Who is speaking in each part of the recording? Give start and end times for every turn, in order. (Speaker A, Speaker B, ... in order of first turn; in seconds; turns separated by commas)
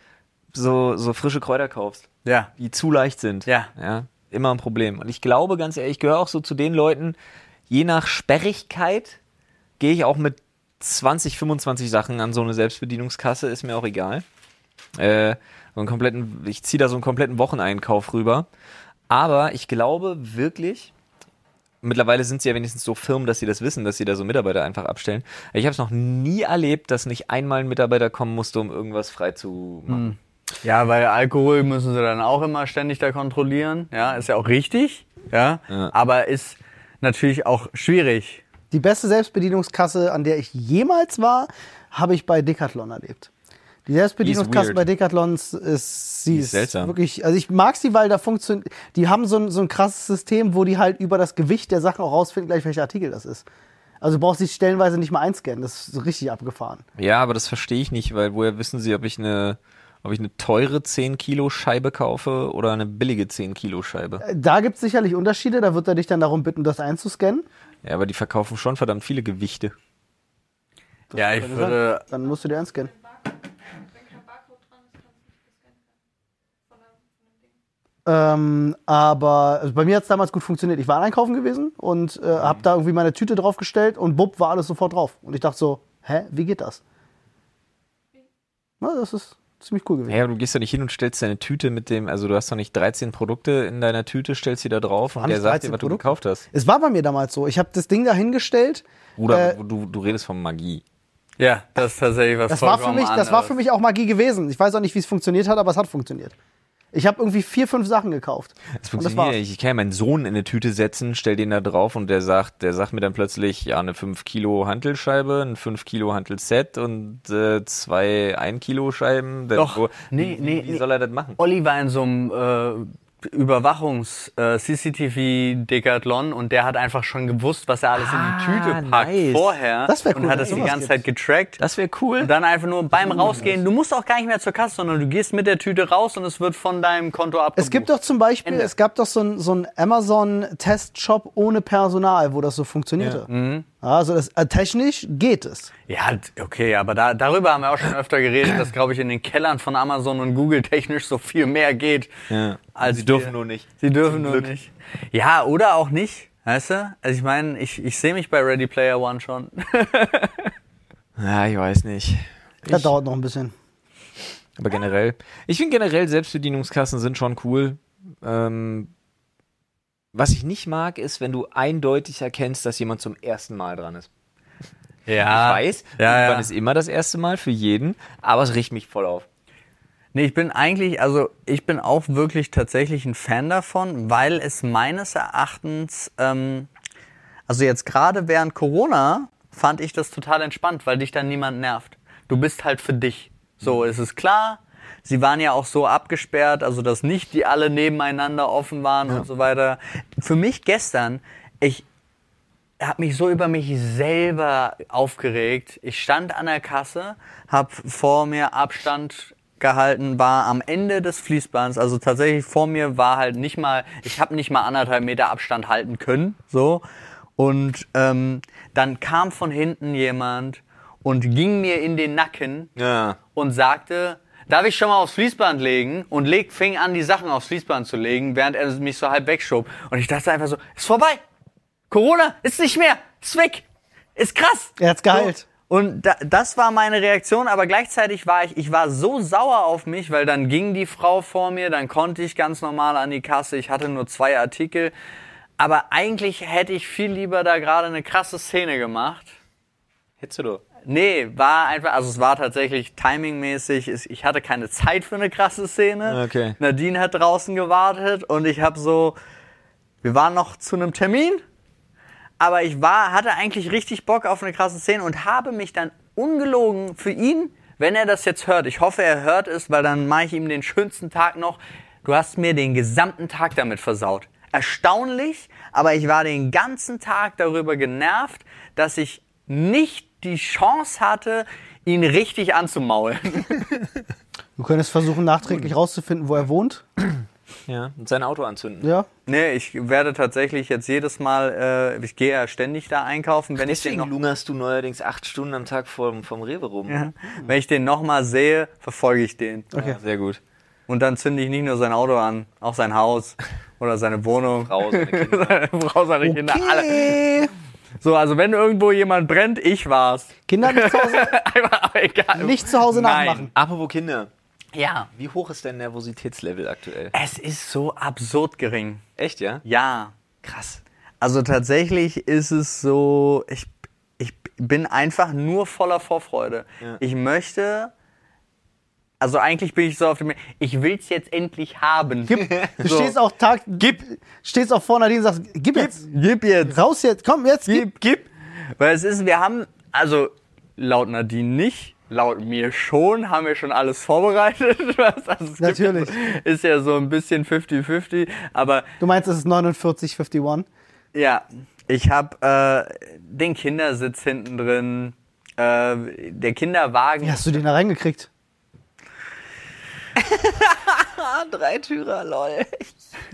Speaker A: 0.5-2.1, Speaker B: 2.2-2.5, Speaker A: 2.6-7.2, Speaker B: 3.5-3.7, Speaker A: 7.7-9.2, Speaker A: 9.8-14.2, Speaker A: 14.9-18.5, Speaker A: 19.1-20.9, Speaker A: 21.8-30.1, Speaker B: 29.9-38.4, Speaker C: 38.7-43.3, Speaker C: 43.9-53.5, Speaker A: 44.2-44.8, Speaker A: 46.3-46.9, Speaker C: 54.0-56.8, Speaker A: 57.0-64.2, Speaker C: 64.2-67.5, Speaker A: 67.8-69.7, Speaker C: 71.1-72.9, Speaker B: 71.1-72.0, Speaker C: 78.0-86.8, Speaker A: 82.4-82.6, Speaker C: 88.8-90.2, Speaker A: 90.1-96.4, Speaker C: 95.2-99.6, Speaker A: 99.2-100.8, Speaker B: 101.4-103.5, Speaker C: 102.5-106.3, Speaker C: 106.9-109.4, Speaker A: 108.8-121.4, Speaker B: 119.5-120.8, Speaker B: 121.4-131.6, Speaker A: 128.0-129.5, Speaker C: 129.9-131.0, Speaker A: 130.4-130.7, Speaker A: 131.6-132.3, Speaker B: 132.2-137.9, Speaker C: 132.9-133.6, Speaker C: 137.6-143.3, Speaker B: 138.4-138.7, Speaker B: 143.3-143.6, Speaker C: 143.8-145.7, Speaker B: 145.9-152.1, Speaker A: 152.3-154.5, Speaker B: 152.7-160.5, Speaker A: 161.2-162.9, Speaker C: 162.7-163.5, Speaker A: 164.6-168.9, Speaker A: 170.1-174.1, Speaker B: 175.1-176.5, Speaker A: 175.3-179.2, Speaker B: 180.1-186.7, Speaker B: 187.5-201.8, Speaker B: 202.8-216.8, Speaker B: 217.4-222.7, Speaker A: 222.8-223.2, Speaker B: 223.3-231.2, Speaker B: 231.9-233.6, Speaker B: 234.2-244.9, Speaker C: 234.8-235.4, Speaker B: 245.6-249.3, Speaker A: 250.2-250.6, Speaker B: 250.8-259.1, Speaker A: 256.1-256.6, Speaker B: 260.0-261.4, Speaker B: 262.4-283.6, Speaker C: 284.6-286.8, Speaker A: 287.7-288.9, Speaker C: 288.8-289.1, Speaker B: 289.3-294.1, Speaker A: 293.6-297.0, Speaker B: 296.9-299.7, Speaker C: 299.7-300.0, Speaker A: 299.7-300.4, Speaker B: 300.9-307.2, Speaker A: 304.6-305.6, Speaker A: 306.2-307.5, Speaker B: 308.0-313.5, Speaker C: 310.5-311.3, Speaker C: 312.3-313.5, Speaker A: 313.6-314.3, Speaker B: 314.7-315.1, Speaker A: 315.1-317.1, Speaker B: 317.1-319.0, Speaker A: 319.2-319.6, Speaker B: 319.6-320.1, Speaker A: 320.4-320.8, Speaker B: 321.2-327.9, Speaker B: 329.2-333.1, Speaker C: 332.3-336.1, Speaker A: 332.3-333.0, Speaker B: 335.8-336.7, Speaker C: 336.6-337.9, Speaker A: 337.8-338.2, Speaker B: 338.8-348.9, Speaker C: 345.6-346.1, Speaker C: 349.0-350.7, Speaker B: 351.1-357.6, Speaker C: 357.2-358.3, Speaker A: 360.2-362.9